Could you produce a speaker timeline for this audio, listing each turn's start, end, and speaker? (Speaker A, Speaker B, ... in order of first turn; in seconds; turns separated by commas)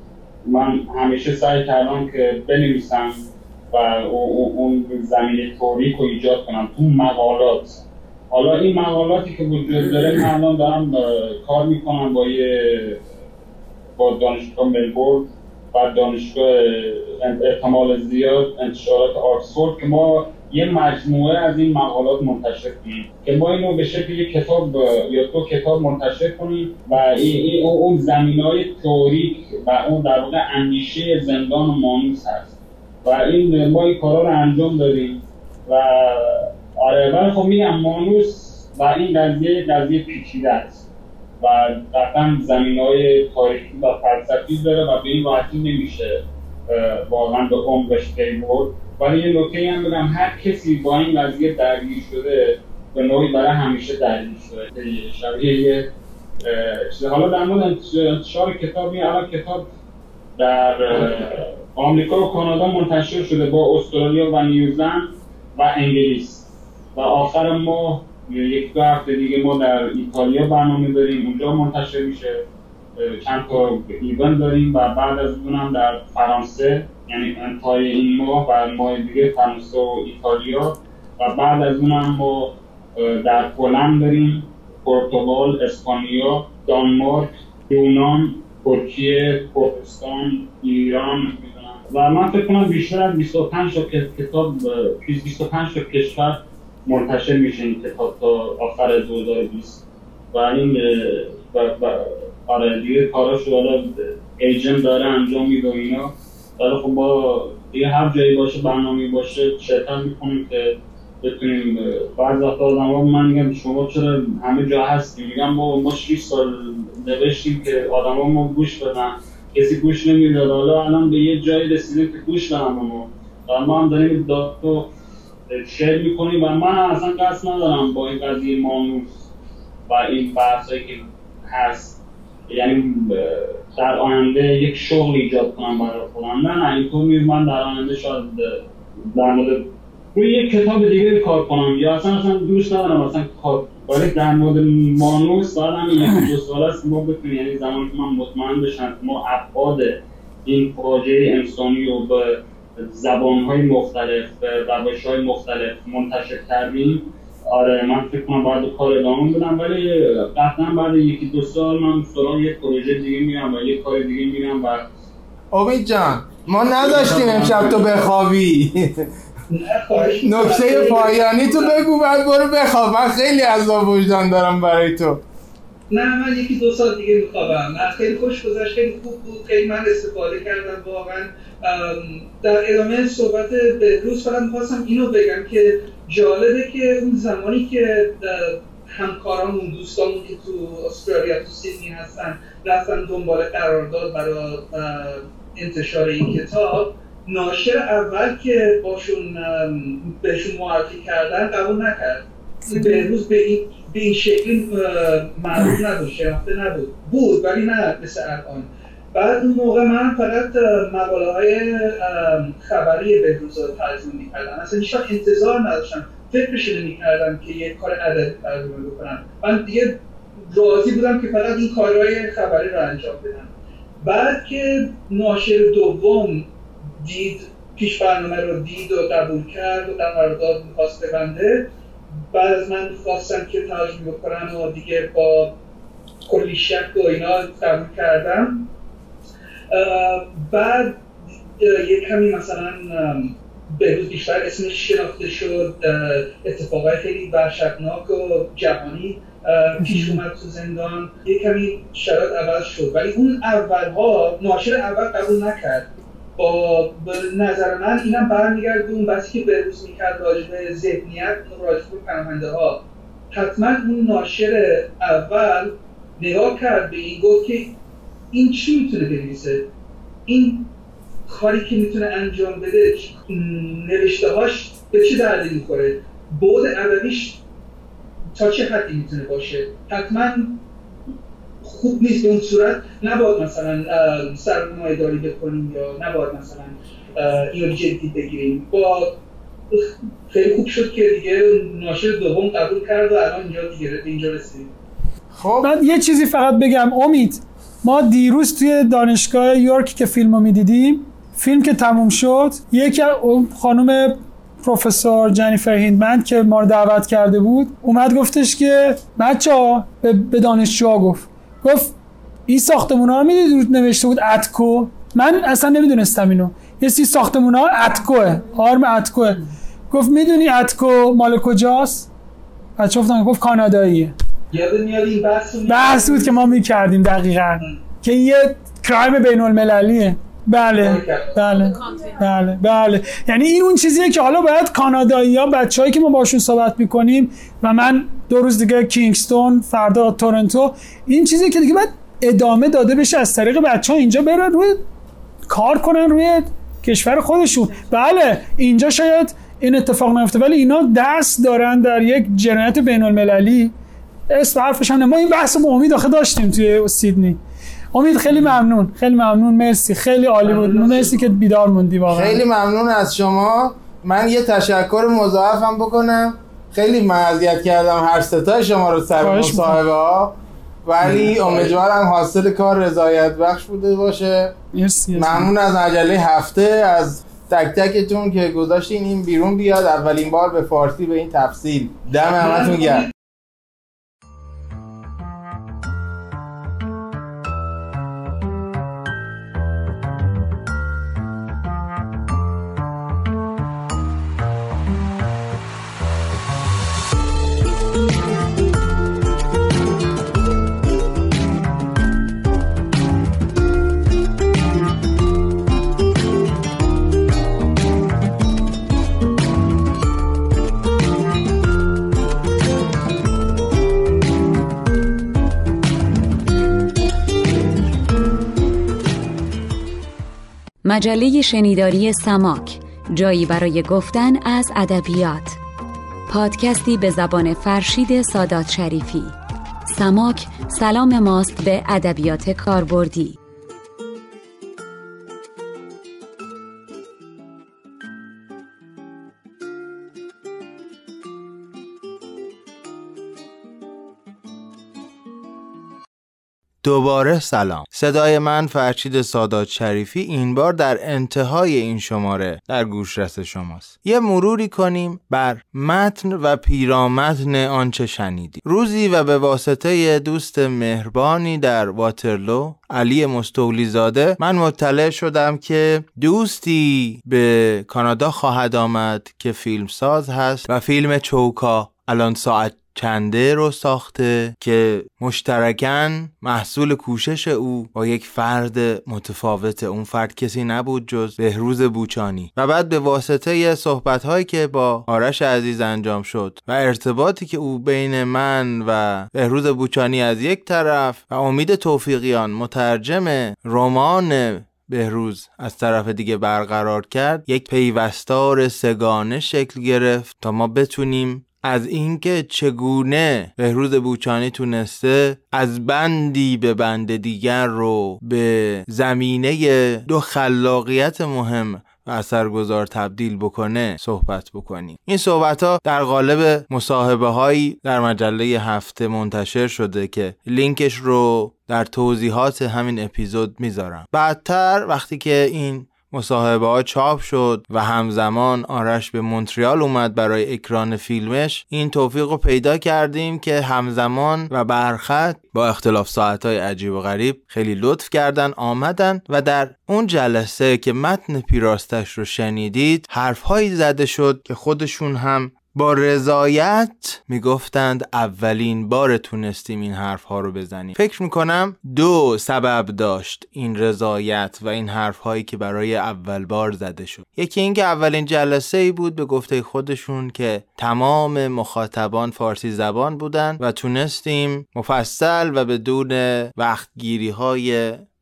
Speaker A: 0.5-13.0, Speaker A: 14.0-40.8, Speaker A: 41.4-55.9, Speaker A: 56.4-59.6, Speaker A: 60.4-72.4, Speaker A: 73.0-99.8, Speaker A: 100.3-124.9, Speaker A: 125.5-129.1, Speaker A: 129.9-132.0, Speaker A: 132.5-138.6, Speaker A: 139.1-164.8, Speaker B: 165.5-169.1, Speaker A: 166.8-167.9, Speaker C: 169.5-171.8, Speaker B: 170.2-175.2, Speaker C: 175.9-220.0, Speaker D: 202.7-203.1, Speaker C: 220.5-223.5, Speaker C: 224.0-226.5, Speaker C: 227.0-231.7, Speaker C: 232.3-235.5, Speaker C: 236.2-238.6, Speaker C: 239.7-241.0, Speaker C: 241.6-262.8, Speaker D: 249.8-250.2, Speaker C: 263.3-267.7, Speaker C: 268.3-269.6, Speaker C: 270.3-270.6, Speaker C: 271.2-277.4, Speaker C: 278.3-280.6, Speaker C: 281.6-289.2, Speaker C: 289.7-294.7, Speaker B: 295.3-295.7, Speaker D: 295.6-311.9, Speaker D: 312.5-322.1, Speaker D: 322.8-324.1, Speaker C: 324.5-326.6, Speaker D: 325.6-344.8, Speaker C: 330.7-332.0, Speaker D: 345.5-353.7, Speaker D: 354.3-357.4, Speaker D: 357.9-362.4, Speaker C: 358.3-358.5, Speaker C: 360.4-361.1, Speaker B: 362.1-374.5, Speaker D: 369.2-369.8, Speaker C: 371.0-371.7, Speaker D: 374.7-375.5, Speaker B: 375.1-383.1, Speaker C: 382.4-383.1, Speaker E: 420.8-425.6, Speaker E: 426.3-429.3, Speaker E: 429.9-433.3, Speaker B: 446.8-567.8